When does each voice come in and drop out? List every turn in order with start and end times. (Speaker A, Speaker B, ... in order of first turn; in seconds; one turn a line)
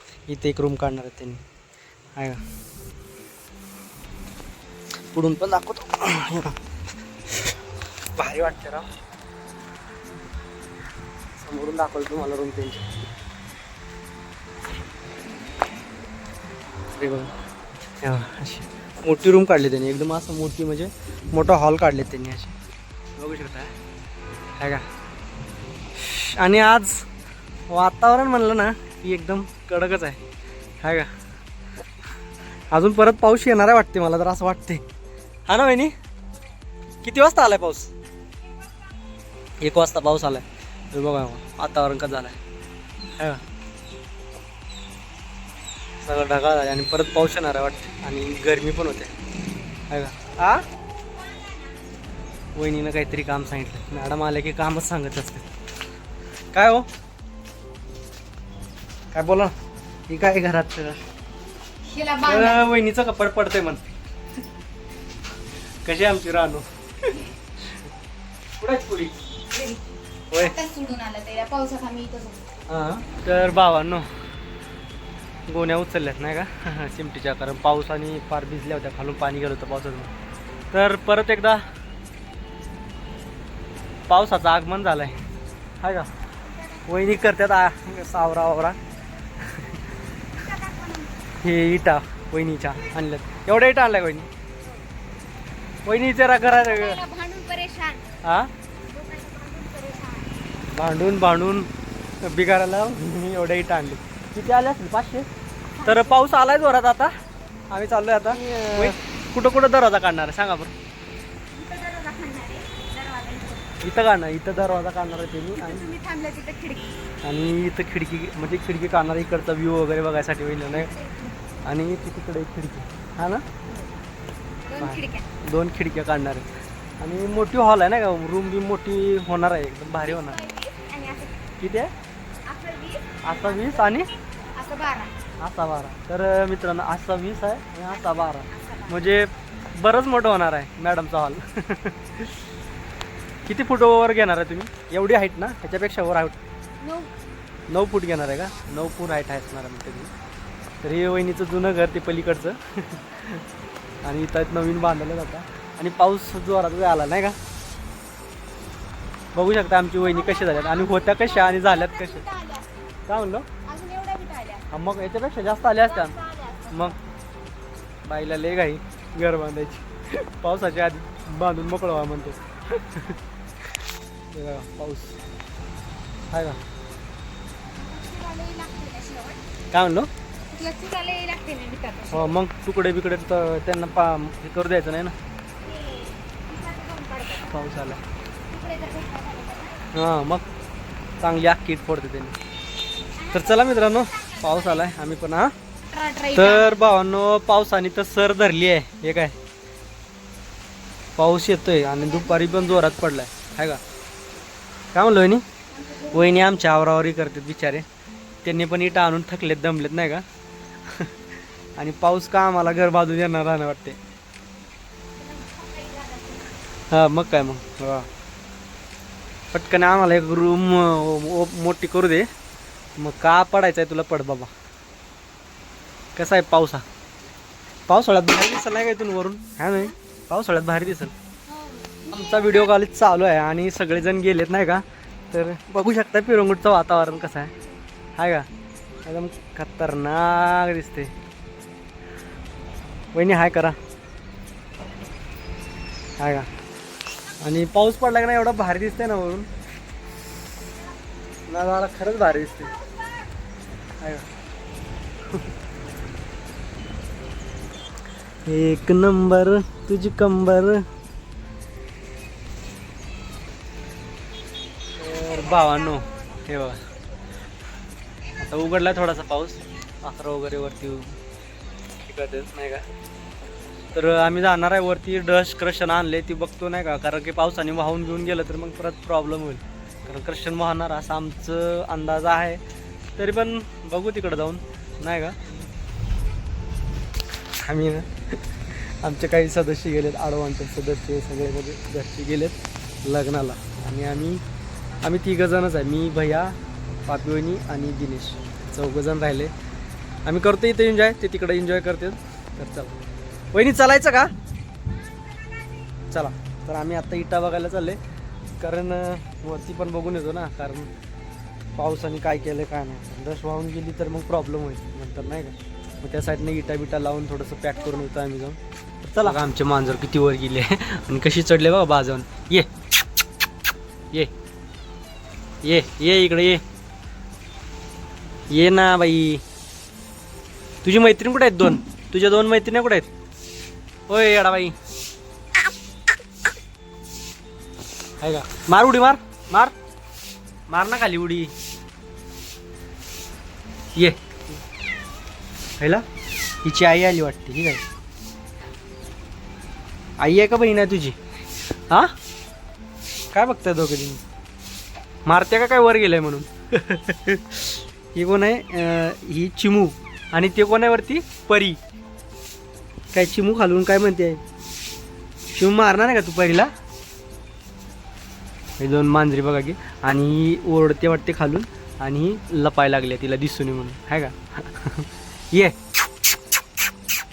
Speaker A: 0.3-1.4
Speaker A: 5.1-6.6
Speaker A: 8.2-8.9
Speaker A: 11.4-12.8
Speaker A: 16.9-17.3
Speaker A: 18.0-22.6
Speaker A: 23.2-23.7
Speaker A: 24.6-24.9
Speaker A: 26.0-27.1
Speaker A: 27.7-30.2
Speaker A: 30.8-31.1
Speaker A: 32.7-34.8
Speaker A: 35.5-35.9
Speaker A: 37.0-37.9
Speaker A: 39.6-42.4
Speaker A: 46.0-49.1
Speaker A: 49.9-50.6
Speaker A: 52.6-55.5
Speaker A: 56.5-56.9
Speaker A: 59.1-59.5
Speaker A: 60.1-61.0
Speaker B: 61.9-62.6
Speaker A: 62.2-63.8
Speaker A: 65.8-67.9
Speaker A: 68.6-69.2
Speaker B: 69.5-69.8
Speaker B: 70.3-72.4
Speaker A: 72.7-74.1
Speaker A: 75.5-80.1
Speaker A: 80.7-81.6
Speaker A: 84.1-85.2
Speaker A: 85.8-86.1
Speaker B: 86.5-87.0
Speaker A: 86.9-88.8
Speaker A: 89.4-89.8
Speaker B: 90.3-91.1
Speaker A: 91.4-94.3
Speaker A: 95.8-97.0
Speaker B: 96.4-98.0
Speaker A: 98.2-98.5
Speaker B: 98.9-100.4
Speaker A: 100.7-101.7
Speaker A: 102.2-105.3
Speaker B: 105.8-106.2
Speaker A: 105.8-107.1
Speaker A: 107.7-110.7
Speaker B: 108.5-108.9
Speaker B: 111.5-113.8
Speaker A: 113.8-115.9
Speaker B: 115.6-116.9
Speaker A: 117.2-120.9
Speaker B: 120.7-121.4
Speaker A: 121.6-123.5
Speaker B: 124.7-125.2
Speaker A: 124.8-126.5
Speaker A: 127.0-130.4
Speaker B: 130.0-131.3
Speaker A: 131.6-131.9
Speaker B: 132.4-134.0
Speaker A: 133.2-134.1
Speaker B: 134.5-135.1
Speaker A: 135.4-142.4
Speaker B: 137.9-139.0
Speaker A: 143.5-146.4
Speaker B: 146.8-147.1
Speaker A: 147.7-150.1
Speaker A: 150.8-153.4
Speaker A: 154.0-157.4
Speaker A: 159.3-162.2
Speaker B: 160.0-162.7
Speaker A: 163.1-163.5
Speaker B: 163.6-164.7
Speaker A: 164.7-166.2
Speaker B: 165.8-167.0
Speaker A: 166.7-167.0
Speaker A: 168.0-173.2
Speaker A: 174.3-175.2
Speaker A: 176.3-176.6
Speaker B: 177.7-179.4
Speaker A: 179.7-180.1
Speaker B: 180.5-182.3
Speaker A: 182.1-185.2
Speaker B: 185.6-187.5
Speaker A: 187.4-188.0
Speaker B: 188.5-189.8
Speaker A: 189.9-190.5
Speaker A: 191.2-192.4
Speaker B: 193.2-194.8
Speaker A: 193.3-195.5
Speaker B: 195.9-196.8
Speaker A: 196.3-199.3
Speaker A: 201.2-203.8
Speaker B: 201.8-202.9
Speaker A: 204.9-205.4
Speaker B: 205.7-206.3
Speaker A: 206.1-207.8
Speaker A: 208.4-210.2
Speaker A: 210.9-211.2
Speaker A: 211.8-214.0
Speaker B: 215.2-216.5
Speaker A: 216.9-218.1
Speaker A: 219.5-222.3
Speaker A: 223.0-224.5
Speaker A: 226.2-226.8
Speaker A: 227.9-231.1
Speaker B: 231.5-232.7
Speaker A: 232.1-237.5
Speaker A: 238.2-238.5
Speaker A: 239.0-241.1
Speaker A: 243.1-243.8
Speaker A: 246.2-246.5
Speaker A: 247.4-249.5
Speaker A: 251.5-252.7
Speaker A: 254.0-254.3
Speaker A: 258.5-260.8
Speaker A: 265.0-266.8
Speaker A: 268.4-271.2
Speaker A: 272.1-272.9
Speaker A: 273.9-282.6
Speaker A: 283.2-285.4
Speaker A: 287.6-294.4
Speaker A: 295.0-299.5
Speaker A: 300.2-302.9
Speaker A: 303.5-304.3
Speaker A: 306.1-308.0
Speaker A: 308.6-310.9
Speaker A: 311.8-322.7
Speaker A: 325.6-326.6
Speaker A: 328.5-329.4
Speaker A: 330.8-333.1
Speaker A: 334.1-334.8
Speaker A: 338.2-339.7
Speaker A: 340.7-341.5
Speaker A: 344.0-344.6
Speaker A: 345.8-346.1
Speaker A: 346.6-347.8
Speaker A: 350.2-351.2
Speaker A: 353.3-354.2
Speaker A: 355.3-361.8
Speaker A: 363.1-364.4
Speaker A: 365.5-366.7
Speaker A: 368.8-375.8